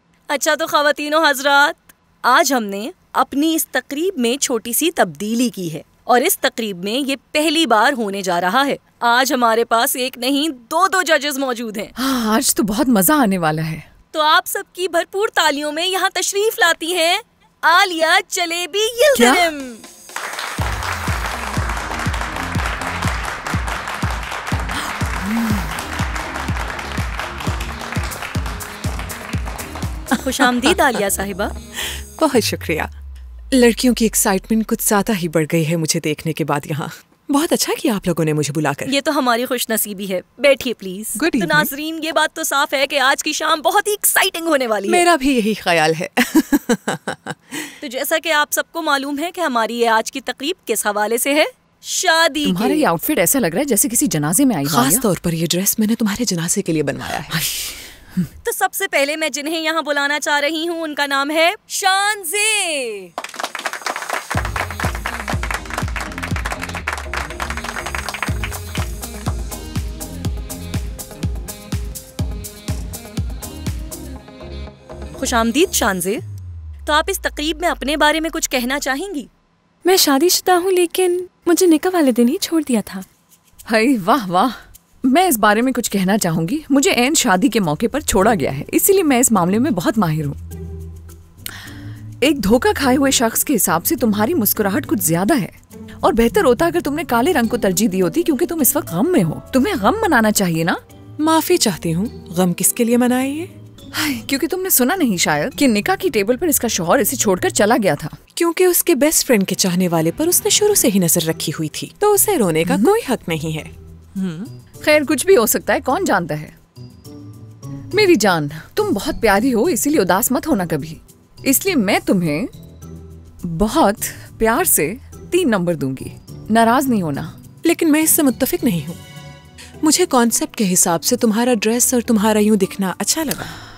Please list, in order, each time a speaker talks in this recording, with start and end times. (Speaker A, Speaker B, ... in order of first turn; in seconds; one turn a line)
Speaker A: 0.3-11.9
Speaker B: 12.0-13.9
Speaker A: 14.1-19.8
Speaker A: 30.2-31.5
Speaker C: 30.3-30.8
Speaker C: 31.8-32.9
Speaker C: 33.5-38.9
Speaker A: 38.9-45.0
Speaker C: 41.1-41.7
Speaker C: 44.9-47.7
Speaker A: 47.8-52.9
Speaker B: 52.4-55.0
Speaker C: 54.6-57.4
Speaker B: 57.3-58.2
Speaker A: 58.4-63.1
Speaker A: 75.2-76.2
Speaker A: 76.8-79.3
Speaker D: 79.8-83.0
Speaker B: 83.7-90.4
Speaker B: 92.2-100.8
Speaker C: 101.2-103.5
Speaker B: 103.9-108.2
Speaker C: 108.3-113.7
Speaker B: 114.8-116.5
Speaker B: 117.9-122.5
Speaker B: 123.4-127.3
Speaker C: 127.6-129.0
Speaker C: 129.8-133.5